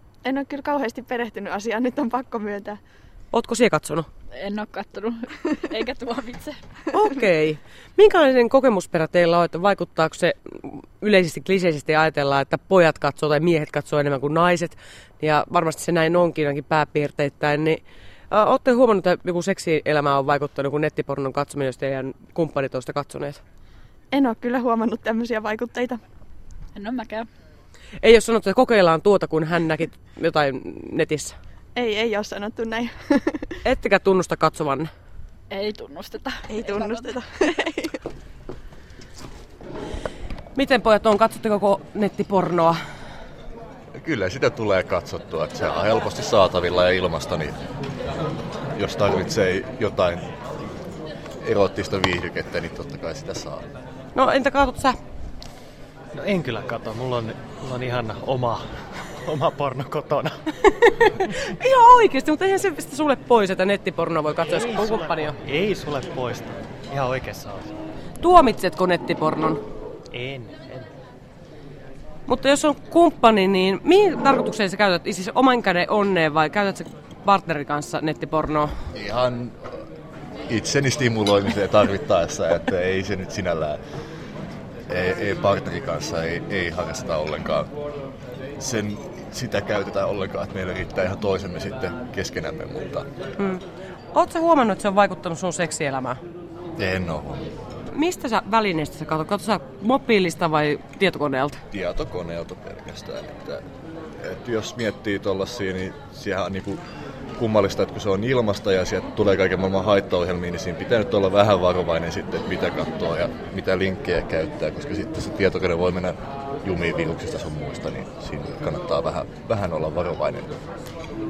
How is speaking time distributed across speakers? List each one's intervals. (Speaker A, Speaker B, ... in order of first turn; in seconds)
Speaker A: 0.2-2.8, 24.1-26.0, 31.8-33.5, 36.5-38.0
Speaker B: 3.3-4.1, 6.9-23.4, 28.0-31.4, 33.6-34.9, 40.5-42.8, 54.1-55.0, 60.9-65.4, 68.2-69.6, 72.3-78.7, 94.1-96.2, 97.9-101.6
Speaker C: 4.3-6.6, 26.8-27.3, 35.5-37.1
Speaker D: 44.0-47.6, 48.8-50.2, 51.4-53.6, 78.9-79.5, 80.5-83.8, 84.9-87.7, 88.6-93.1, 96.8-97.4, 101.7-103.6, 104.2-106.8, 107.4-120.5
Speaker E: 56.2-60.4, 64.5-67.7, 70.1-70.9